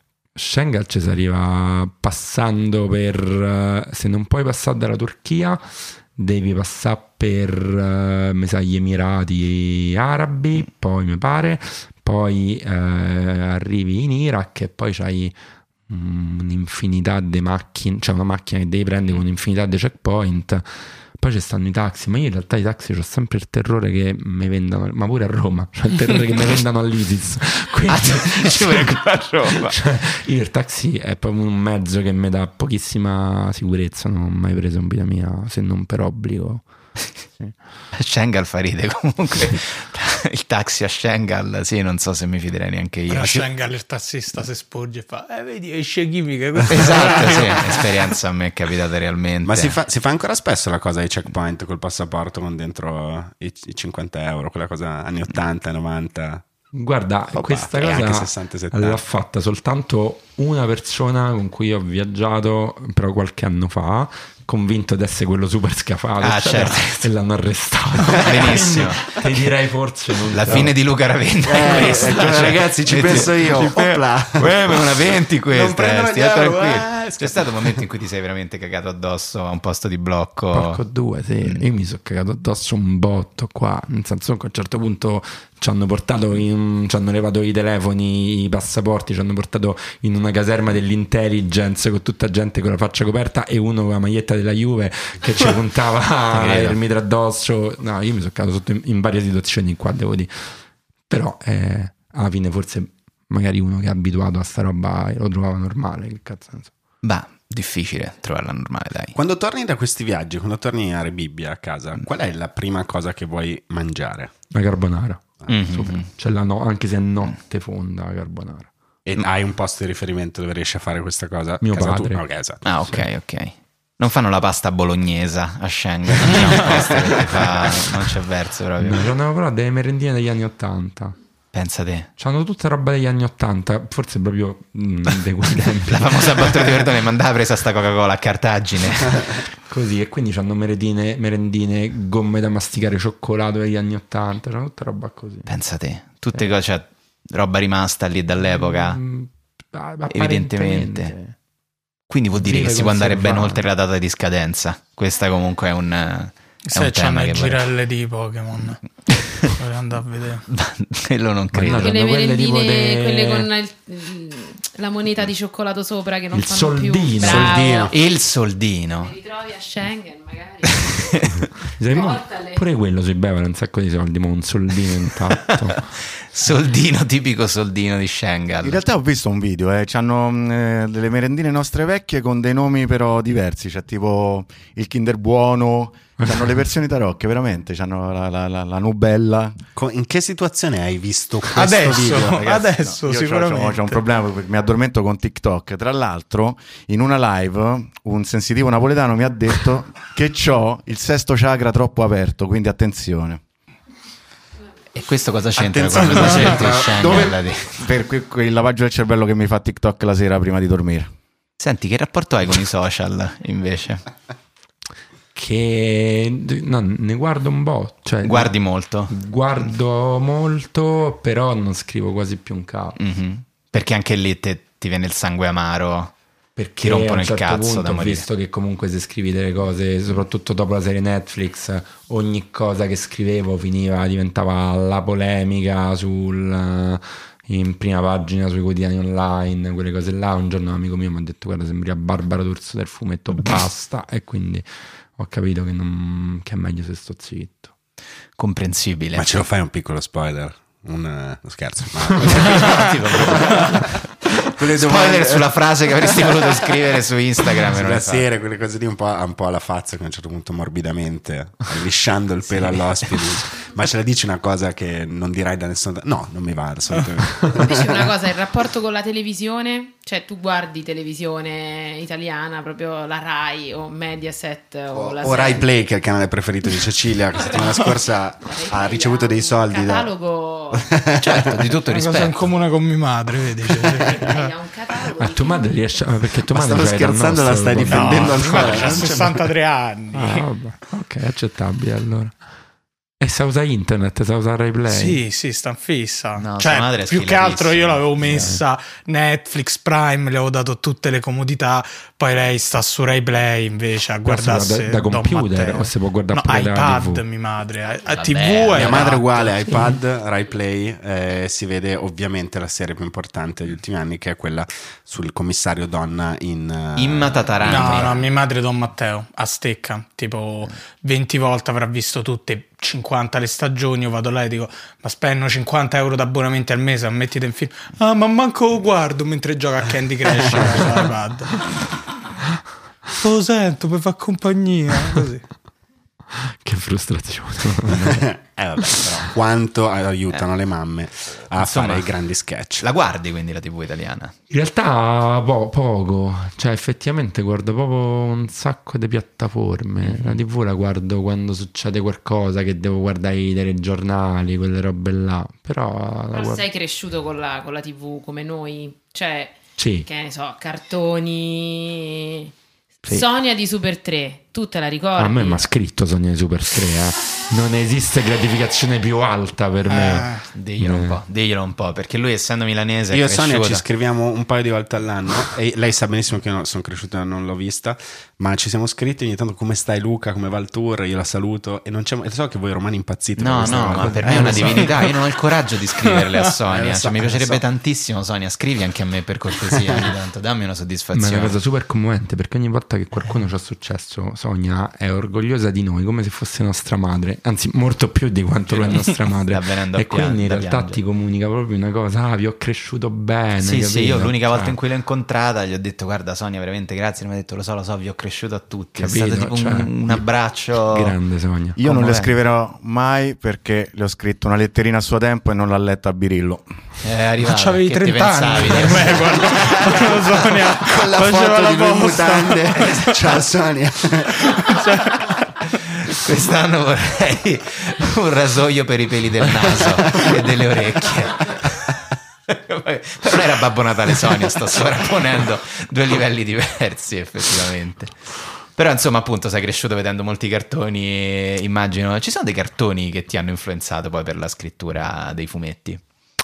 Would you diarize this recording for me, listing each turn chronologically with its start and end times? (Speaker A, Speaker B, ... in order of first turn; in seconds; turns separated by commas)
Speaker A: 0.4-15.4, Speaker A: 15.9-36.7, Speaker B: 27.9-29.8, Speaker B: 37.9-43.5, Speaker C: 43.1-48.1, Speaker B: 46.7-49.8, Speaker D: 49.4-56.5, Speaker A: 56.7-70.7, Speaker D: 57.3-59.0, Speaker B: 66.2-67.1, Speaker B: 68.1-69.2, Speaker B: 70.3-80.8, Speaker D: 71.5-77.7, Speaker A: 71.7-72.2, Speaker A: 80.5-100.5, Speaker B: 96.3-96.8, Speaker A: 101.1-106.7, Speaker B: 107.0-109.2, Speaker D: 109.2-114.3, Speaker A: 114.5-118.7, Speaker B: 115.5-116.1, Speaker D: 119.0-122.6, Speaker A: 121.6-123.0, Speaker B: 122.7-129.1, Speaker A: 128.8-131.2, Speaker B: 131.5-132.1, Speaker A: 132.2-136.8, Speaker B: 135.9-139.4, Speaker A: 139.7-145.5, Speaker B: 145.5-149.0, Speaker A: 148.4-151.3, Speaker B: 150.1-151.1, Speaker B: 152.1-157.7, Speaker A: 152.4-153.7, Speaker C: 156.7-158.8, Speaker B: 159.1-159.5, Speaker C: 159.6-160.5, Speaker B: 160.5-161.9, Speaker A: 161.5-163.5, Speaker E: 161.7-168.0, Speaker A: 166.3-167.6, Speaker D: 167.2-167.9, Speaker B: 167.9-169.1, Speaker E: 169.0-172.6, Speaker B: 170.7-171.4, Speaker A: 171.8-175.8, Speaker B: 176.3-178.8, Speaker F: 178.6-189.6, Speaker D: 189.8-192.5, Speaker C: 191.5-194.0, Speaker F: 192.9-203.4, Speaker B: 204.9-207.8, Speaker D: 205.6-207.4, Speaker F: 206.8-211.1, Speaker B: 211.6-214.1, Speaker A: 215.3-218.6, Speaker B: 218.2-219.1, Speaker A: 219.1-223.0, Speaker B: 223.0-226.1, Speaker A: 226.6-247.7, Speaker B: 226.8-228.3, Speaker B: 248.4-249.3, Speaker D: 249.2-254.0, Speaker B: 252.2-254.0, Speaker D: 254.5-256.7, Speaker B: 254.8-258.3, Speaker D: 257.8-268.1, Speaker B: 262.5-263.2, Speaker E: 267.6-275.7, Speaker D: 274.9-280.1, Speaker E: 277.4-280.9, Speaker D: 280.7-281.6, Speaker B: 281.2-282.5, Speaker C: 281.9-284.2, Speaker D: 284.0-284.5, Speaker E: 284.1-285.9, Speaker A: 285.2-288.9, Speaker D: 286.5-289.5, Speaker C: 287.8-290.5, Speaker B: 288.6-289.0, Speaker A: 290.1-292.4, Speaker A: 293.2-295.2, Speaker C: 294.9-309.5, Speaker B: 296.4-298.6, Speaker A: 298.3-298.6, Speaker A: 304.2-307.2, Speaker B: 308.0-309.2, Speaker D: 308.8-318.2, Speaker B: 317.0-318.3, Speaker C: 317.7-331.6, Speaker C: 333.2-335.4, Speaker A: 336.3-338.3, Speaker D: 338.1-342.9, Speaker B: 341.6-342.1, Speaker B: 342.8-344.3, Speaker A: 344.5-356.6, Speaker B: 350.0-350.4, Speaker E: 356.3-362.5, Speaker A: 359.8-360.1, Speaker E: 363.1-365.6, Speaker A: 365.2-371.2, Speaker C: 369.9-370.5, Speaker B: 370.6-373.9, Speaker D: 373.1-384.9, Speaker B: 383.4-391.6, Speaker A: 383.6-384.9, Speaker C: 384.8-385.2, Speaker C: 386.0-386.6, Speaker D: 386.7-387.6, Speaker A: 391.1-404.8, Speaker B: 398.7-401.0, Speaker B: 403.6-411.1, Speaker A: 409.0-410.3, Speaker A: 410.8-411.8, Speaker F: 411.8-416.7, Speaker B: 411.8-412.3, Speaker B: 417.0-420.3, Speaker C: 417.4-423.2, Speaker D: 419.6-420.0, Speaker D: 420.8-424.5, Speaker C: 424.7-425.4, Speaker B: 426.1-446.0